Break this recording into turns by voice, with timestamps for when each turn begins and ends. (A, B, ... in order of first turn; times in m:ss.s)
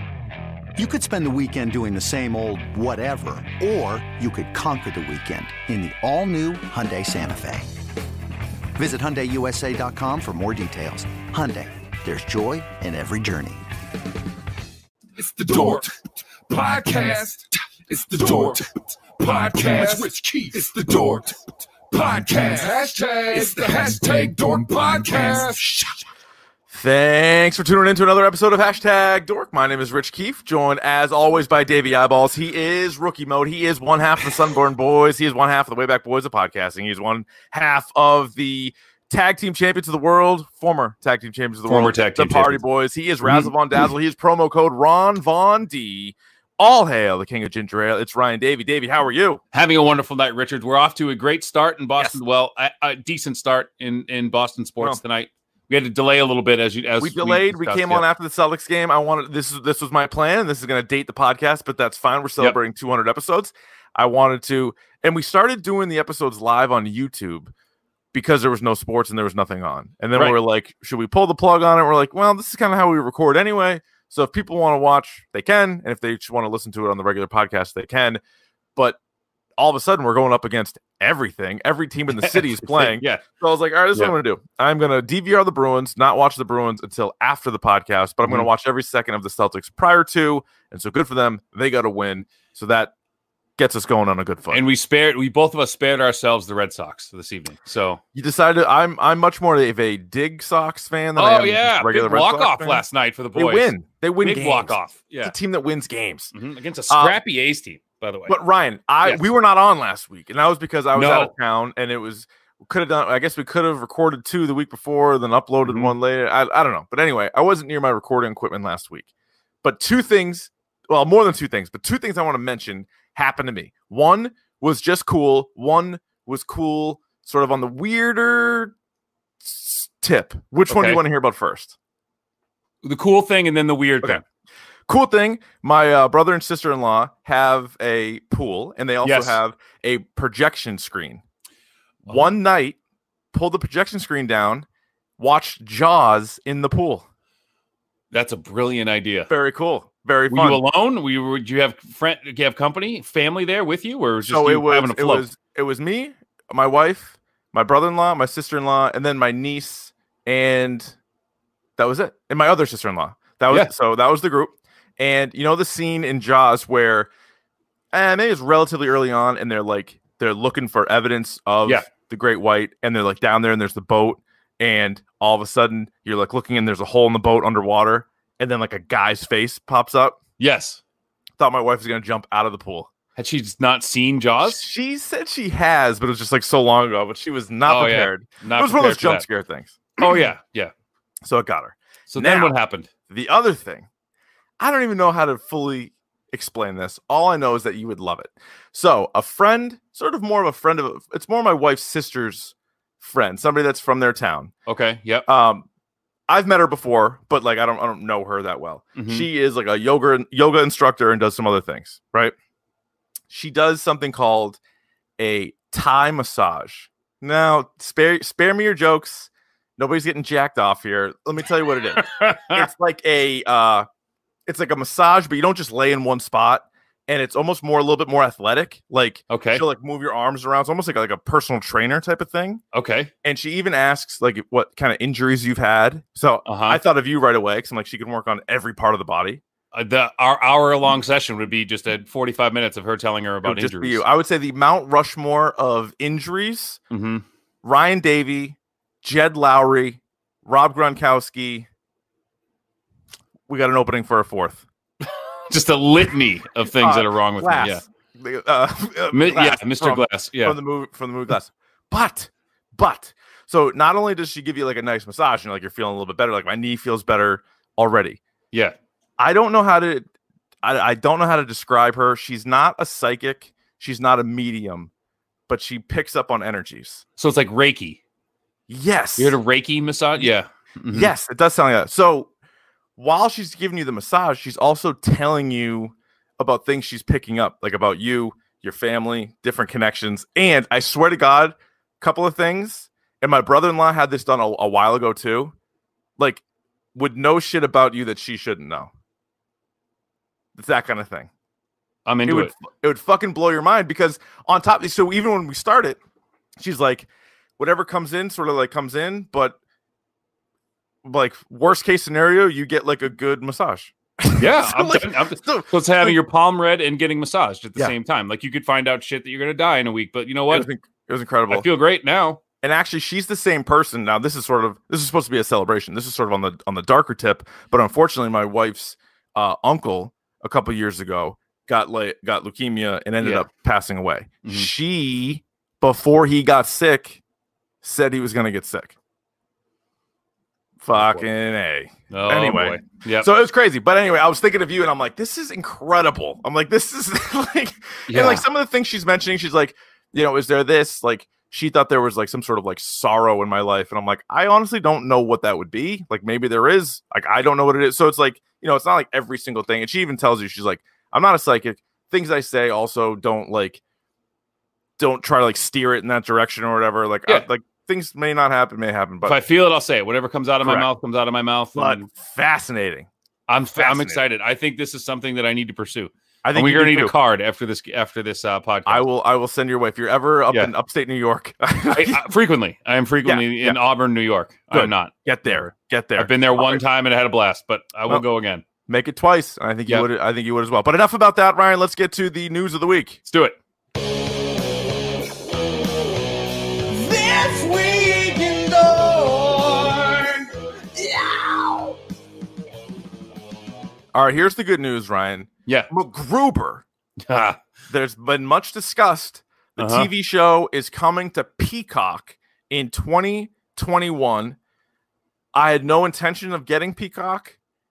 0:00.8-0:07.7 A
0:08.8-0:13.7 A
0:15.2-0:15.9 B
0:16.5-0:21.4 B
0:21.9-0:25.7 B
0:26.7-0:49.4 C
0:41.7-0:42.6 D
0:43.2-0:43.5 D
0:49.5-0:58.0 D
0:57.0-1:07.5 C
1:08.1-1:18.2 C
1:19.6-1:32.9 C
1:22.2-1:23.2 D
1:33.6-1:34.6 C
1:34.5-1:38.0 D
1:38.1-1:42.8 C
1:41.2-1:45.4 D
1:43.4-1:46.3 C
1:46.3-1:48.4 D
1:46.9-1:47.2 C
1:48.3-1:59.1 C
1:50.9-1:51.3 D
1:55.7-1:55.9 D
1:59.6-2:08.7 C
2:09.4-2:11.8 C
2:10.7-2:11.0 D
2:12.8-2:14.2 D
2:14.9-2:21.2 C
2:19.0-2:19.4 D
2:22.1-2:22.8 C
2:23.3-2:24.7 C
2:25.2-2:27.1 C
2:28.1-2:29.3 D
2:29.3-2:30.6 C
2:30.3-2:35.2 D
2:34.2-2:41.0 C
2:41.8-2:47.1 C
2:47.9-3:00.2 C
3:00.4-3:00.8 D
3:01.4-3:02.9 C
3:03.2-3:04.6 D
3:04.4-3:10.3 C
3:07.7-3:09.2 D
3:10.0-3:10.7 D
3:11.2-3:12.5 C
3:12.1-3:12.9 D
3:13.1-3:13.9 C
3:14.6-3:24.5 C
3:24.7-3:25.3 D
3:25.3-3:25.7 C
3:26.3-3:32.3 C
3:29.0-3:29.3 D
3:33.3-3:34.6 C
3:35.2-3:43.9 C
3:42.0-3:42.7 D
3:44.5-3:52.6 C
3:49.3-3:49.6 D
3:52.7-3:53.1 D
3:53.2-3:59.4 C
3:56.5-3:56.8 D
3:59.7-4:04.0 D
4:03.4-4:06.8 C
4:06.9-4:07.2 D
4:07.6-4:11.7 C
4:13.5-4:14.6 C
4:15.5-4:17.8 D
4:16.8-4:28.2 C
4:19.1-4:20.6 D
4:29.2-4:30.1 C
4:30.6-4:34.9 C
4:35.5-4:37.0 C
4:37.2-4:38.0 D
4:38.7-4:39.4 C
4:39.2-4:41.1 D
4:40.9-4:42.3 C
4:43.0-4:55.5 C
4:57.0-4:58.9 C
5:00.6-5:01.3 C
5:02.1-5:02.5 D
5:02.3-5:06.0 C
5:06.6-5:07.1 C
5:07.6-5:09.6 C
5:11.0-5:16.2 C
5:14.4-5:20.7 D
5:20.5-5:21.7 C
5:21.5-5:22.4 D
5:22.6-5:37.2 C
5:33.2-5:33.5 D
5:34.4-5:34.7 D
5:37.8-5:39.0 C
5:40.8-6:03.8 C
5:40.9-5:41.3 D
5:42.1-5:43.3 D
5:48.1-5:48.4 D
6:05.0-6:09.4 C
6:09.2-6:12.1 D
6:10.6-6:10.9 C
6:11.8-6:13.1 C
6:13.5-6:19.1 D
6:13.8-6:14.2 C
6:16.4-6:17.1 C
6:18.9-6:22.2 C
6:21.9-6:28.6 D
6:23.2-6:23.8 C
6:24.7-6:26.8 C
6:28.9-6:33.2 C
6:33.3-6:33.6 D
6:36.9-6:42.0 E
6:44.1-6:46.8 C
6:47.3-6:47.6 D
6:47.9-6:54.6 C
6:49.8-6:50.1 D
6:55.6-6:57.6 C